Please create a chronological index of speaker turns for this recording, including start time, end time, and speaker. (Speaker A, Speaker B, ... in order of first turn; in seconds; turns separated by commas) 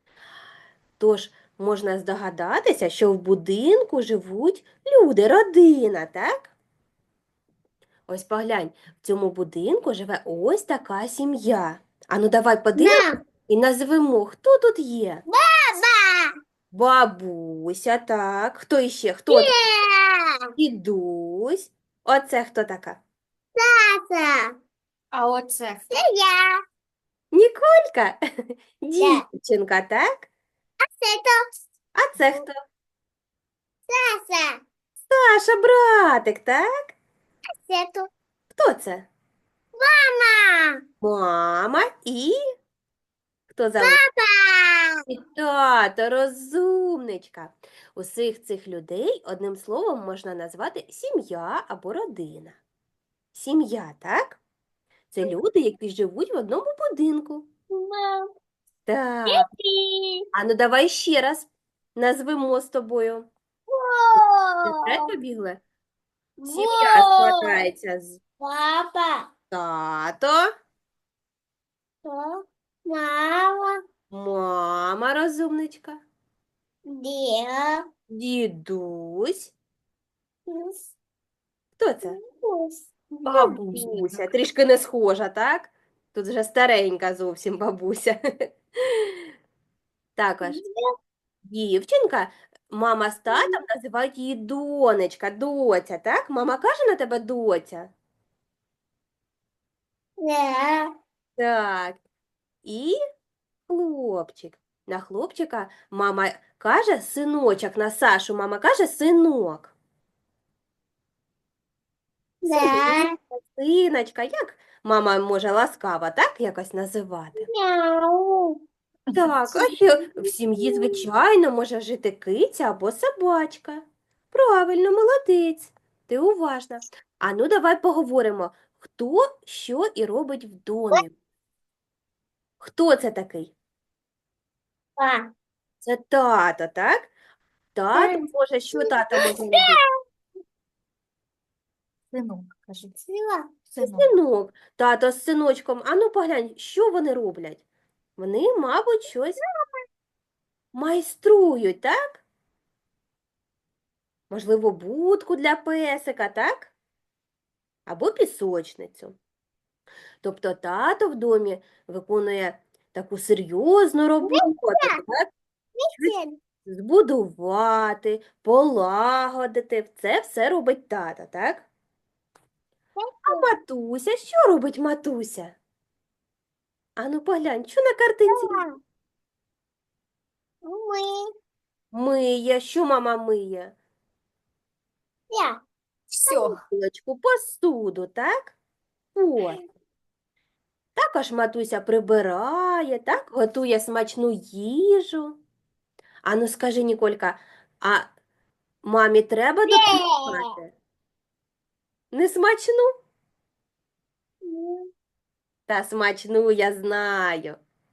Speaker A: 1.0-6.5, Speaker A: 8.1-15.2, Speaker B: 12.8-13.2, Speaker B: 15.3-16.3, Speaker A: 16.7-19.6, Speaker B: 19.3-20.4, Speaker A: 20.6-23.0, Speaker B: 23.6-24.6, Speaker C: 25.1-25.9, Speaker B: 25.9-26.6, Speaker A: 27.3-28.2, Speaker A: 28.8-30.3, Speaker B: 29.0-29.2, Speaker B: 31.0-31.4, Speaker A: 31.9-32.6, Speaker B: 33.9-34.6, Speaker A: 35.1-36.7, Speaker B: 37.6-38.1, Speaker A: 38.5-39.1, Speaker B: 39.8-40.8, Speaker A: 41.0-42.4, Speaker A: 43.5-44.0, Speaker B: 43.8-45.0, Speaker A: 45.1-52.6, Speaker A: 53.3-54.4, Speaker A: 55.1-57.5, Speaker B: 57.7-58.3, Speaker A: 58.9-59.5, Speaker B: 59.3-60.2, Speaker A: 60.3-63.3, Speaker B: 63.7-64.9, Speaker A: 64.6-65.6, Speaker B: 66.4-67.6, Speaker A: 66.5-68.2, Speaker B: 68.4-69.3, Speaker A: 69.5-70.5, Speaker B: 72.0-73.8, Speaker A: 74.1-76.0, Speaker B: 76.9-77.8, Speaker A: 78.1-79.5, Speaker B: 80.5-80.8, Speaker A: 81.8-82.2, Speaker B: 82.0-82.9, Speaker A: 83.2-89.1, Speaker C: 83.3-84.3, Speaker A: 90.2-90.6, Speaker B: 90.4-90.8, Speaker A: 91.5-97.9, Speaker B: 100.2-100.9, Speaker A: 101.4-102.0, Speaker A: 102.7-103.0, Speaker A: 103.7-109.7, Speaker B: 112.4-113.1, Speaker A: 112.5-117.5, Speaker B: 117.4-118.6, Speaker A: 119.1-131.2, Speaker B: 119.5-121.0, Speaker A: 132.6-133.5, Speaker B: 135.0-135.3, Speaker A: 135.8-137.1, Speaker A: 137.8-139.8, Speaker B: 137.9-138.3, Speaker B: 138.8-139.8, Speaker C: 142.1-143.0, Speaker B: 143.1-143.5, Speaker C: 143.7-144.1, Speaker A: 143.8-147.6, Speaker A: 148.2-149.4, Speaker A: 150.7-152.2, Speaker A: 154.3-156.7, Speaker A: 157.9-159.2, Speaker A: 160.2-165.3, Speaker B: 164.2-165.0, Speaker B: 165.8-166.4, Speaker A: 166.7-171.7, Speaker B: 173.0-173.5, Speaker A: 173.3-175.6, Speaker A: 177.0-178.6, Speaker B: 178.3-178.8, Speaker B: 180.6-181.3, Speaker A: 181.9-183.7, Speaker B: 185.3-185.6, Speaker C: 186.1-186.6, Speaker B: 186.3-186.6, Speaker A: 186.7-188.6, Speaker A: 189.2-189.6, Speaker A: 191.0-195.4, Speaker A: 196.2-198.1, Speaker A: 198.8-200.7, Speaker B: 199.7-200.5, Speaker A: 202.1-202.9, Speaker B: 204.4-204.9, Speaker A: 205.7-207.6